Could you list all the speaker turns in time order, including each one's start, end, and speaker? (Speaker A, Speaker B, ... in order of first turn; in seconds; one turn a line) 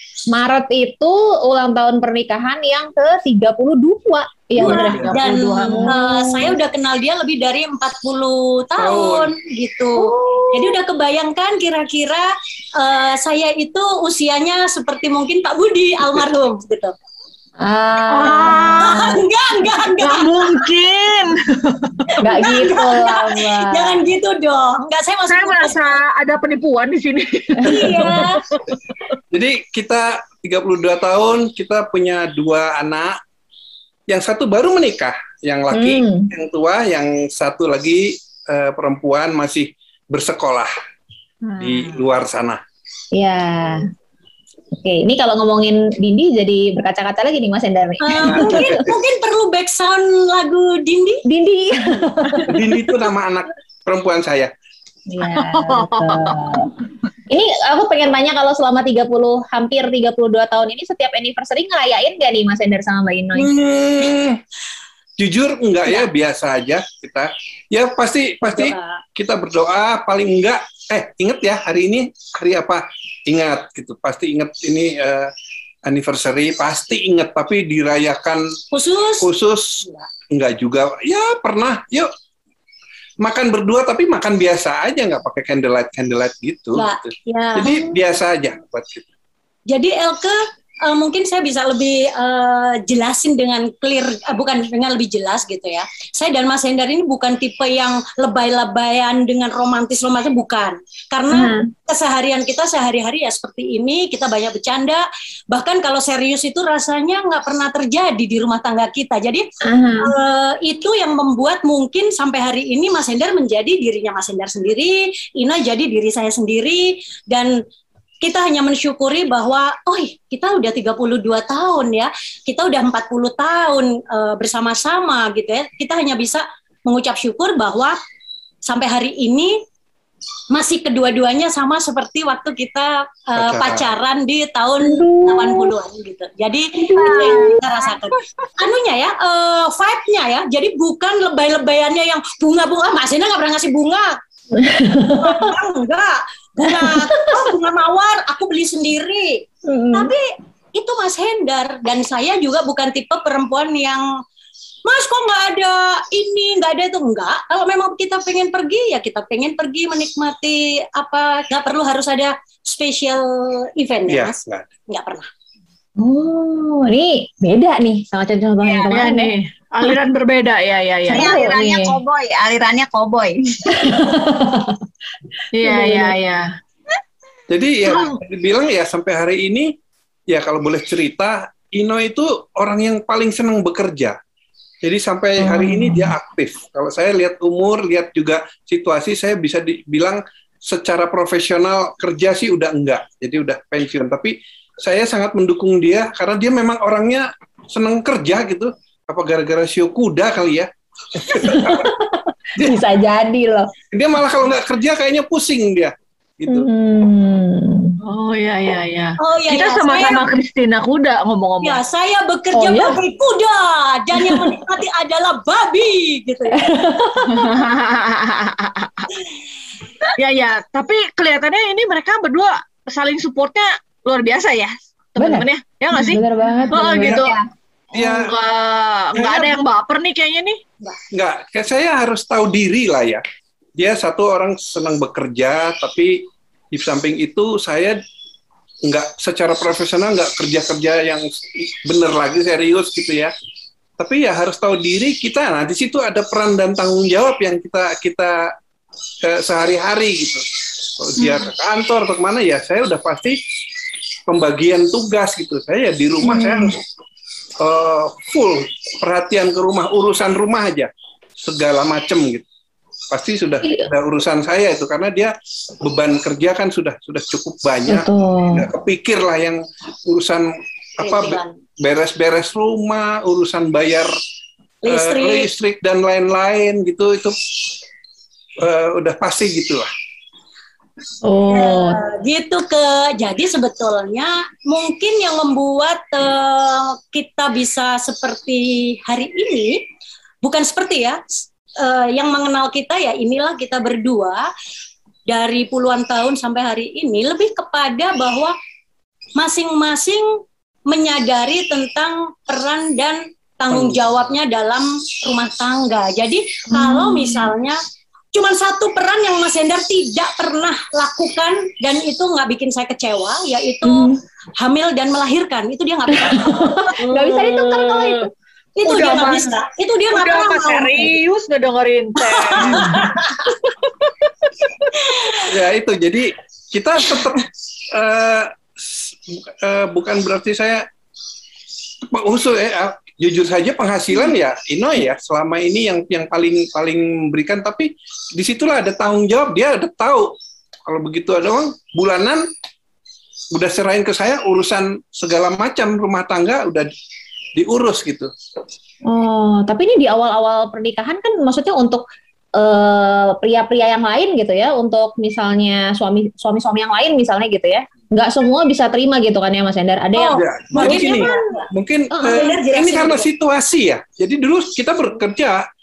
Speaker A: 0.3-6.5
Speaker B: 4.6-6.0
Speaker C: 4.6-5.2
Speaker D: 4.6-16.9
Speaker C: 8.8-9.3
Speaker A: 10.0-10.7
Speaker A: 17.6-19.2
Speaker B: 18.1-19.1
Speaker D: 18.3-20.6
Speaker B: 20.0-22.4
Speaker A: 22.2-24.0
Speaker D: 22.3-25.9
Speaker B: 25.3-28.8
Speaker D: 27.6-28.4
Speaker C: 29.3-33.2
Speaker C: 34.1-40.7
Speaker A: 35.7-36.3
Speaker B: 41.4-42.0
Speaker C: 41.6-42.6
Speaker A: 43.1-43.9
Speaker A: 44.8-48.8
Speaker D: 48.0-51.2
Speaker C: 48.2-48.9
Speaker A: 51.2-52.6
Speaker C: 52.5-54.5
Speaker A: 55.1-56.7
Speaker B: 55.3-56.5
Speaker A: 57.3-63.5
Speaker C: 63.4-64.4
Speaker C: 65.2-75.3
Speaker D: 68.4-69.0
Speaker C: 75.8-78.5
Speaker D: 78.7-79.3
Speaker C: 79.2-82.1
Speaker C: 83.2-89.1
Speaker D: 86.7-87.9
Speaker D: 89.7-109.5
Speaker A: 101.3-101.7
Speaker A: 109.6-110.1
Speaker D: 110.0-117.6
Speaker D: 118.2-128.0
Speaker D: 128.7-129.6
Speaker D: 130.5-144.2
Speaker C: 133.3-133.9
Speaker A: 134.8-135.7
Speaker A: 136.7-137.6
Speaker A: 144.6-145.5
Speaker D: 145.2-150.2
Speaker A: 146.6-147.5
Speaker A: 149.7-150.1
Speaker D: 150.8-154.0
Speaker D: 154.8-165.3
Speaker C: 164.1-164.7
Speaker A: 166.0-169.3
Speaker E: 168.6-168.9
Speaker B: 168.9-171.3
Speaker A: 171.1-172.0
Speaker E: 171.1-173.6
Speaker A: 173.7-174.7
Speaker B: 175.5-176.4
Speaker A: 175.6-176.1
Speaker C: 177.5-179.7
Speaker B: 177.9-178.2
Speaker C: 180.3-184.2
Speaker C: 184.8-201.9
Speaker A: 201.3-203.7
Speaker C: 203.9-206.7
Speaker A: 206.5-207.9
Speaker B: 208.0-211.8
Speaker D: 209.2-210.2
Speaker D: 211.6-216.6
Speaker A: 212.5-213.0
Speaker A: 216.5-217.6
Speaker B: 217.3-219.1
Speaker B: 220.2-227.3
Speaker A: 225.2-227.4
Speaker B: 227.9-230.6
Speaker C: 227.9-228.3
Speaker C: 229.1-229.5
Speaker C: 231.1-233.2
Speaker C: 233.8-238.0
Speaker C: 238.8-243.3
Speaker C: 244.0-248.5
Speaker C: 249.2-253.4
Speaker C: 254.3-256.8
Speaker A: 256.2-256.7
Speaker C: 257.6-262.5
Speaker C: 263.1-274.1
Speaker A: 263.6-263.9
Speaker A: 267.9-268.7
Speaker D: 271.0-271.6
Speaker D: 274.8-275.5
Speaker C: 274.9-277.4
Speaker C: 278.6-279.9
Speaker A: 281.2-282.0
Speaker D: 281.5-289.8
Speaker D: 290.4-294.5
Speaker D: 295.3-298.5
Speaker D: 299.4-307.8
Speaker C: 303.7-304.0
Speaker A: 306.7-307.5
Speaker D: 308.3-316.9
Speaker A: 313.8-314.2
Speaker A: 316.1-318.3
Speaker B: 317.0-318.3
Speaker D: 318.8-321.1
Speaker B: 318.8-319.5
Speaker B: 320.1-324.9
Speaker D: 322.3-323.5
Speaker C: 322.6-323.0
Speaker D: 325.0-325.4
Speaker C: 325.4-330.8
Speaker C: 332.1-340.3
Speaker C: 340.9-342.4
Speaker C: 343.5-346.9
Speaker C: 347.6-348.3
Speaker A: 349.1-352.0
Speaker A: 352.6-361.4
Speaker D: 360.1-363.3
Speaker C: 360.3-365.6